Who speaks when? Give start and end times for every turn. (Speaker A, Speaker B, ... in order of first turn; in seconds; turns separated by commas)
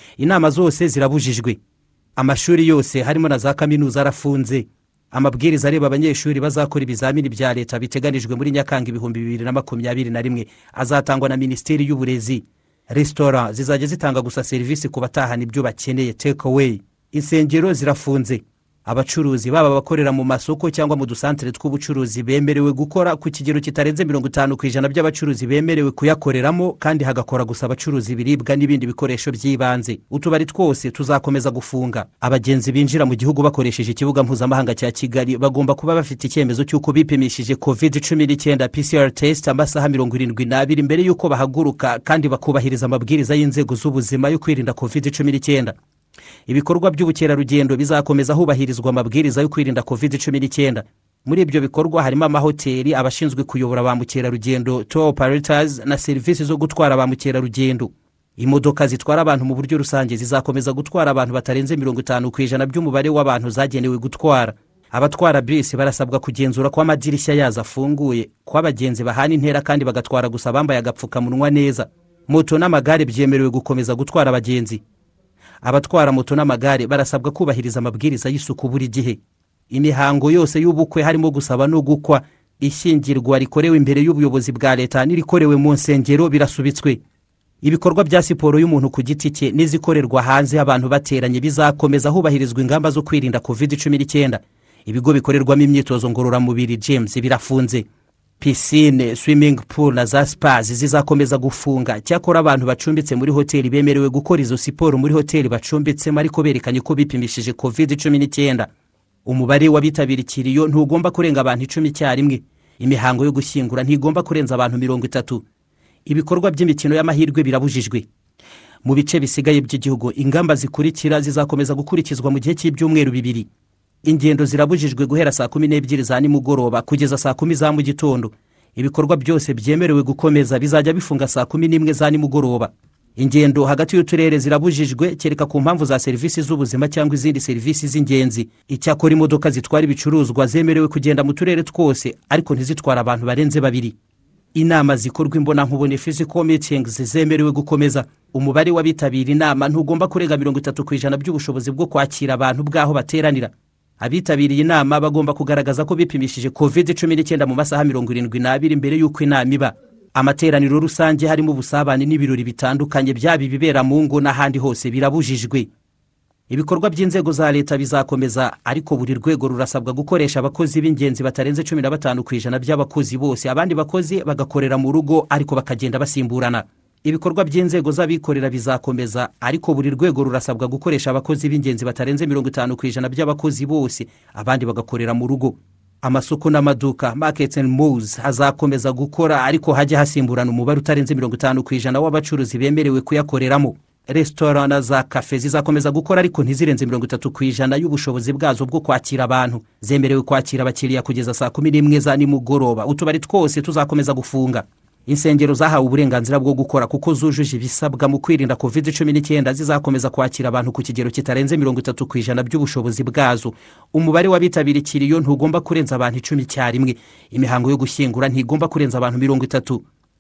Speaker A: 0.2-1.6, Speaker A: 2.2-45.8, Speaker A: 46.5-74.8, Speaker A: 75.6-79.2, Speaker A: 79.7-87.0, Speaker A: 87.6-97.9, Speaker A: 98.4-108.7, Speaker A: 109.3-115.4, Speaker A: 116.1-118.1, Speaker A: 118.8-123.5, Speaker A: 124.0-144.0, Speaker A: 144.6-165.7, Speaker A: 166.5-219.8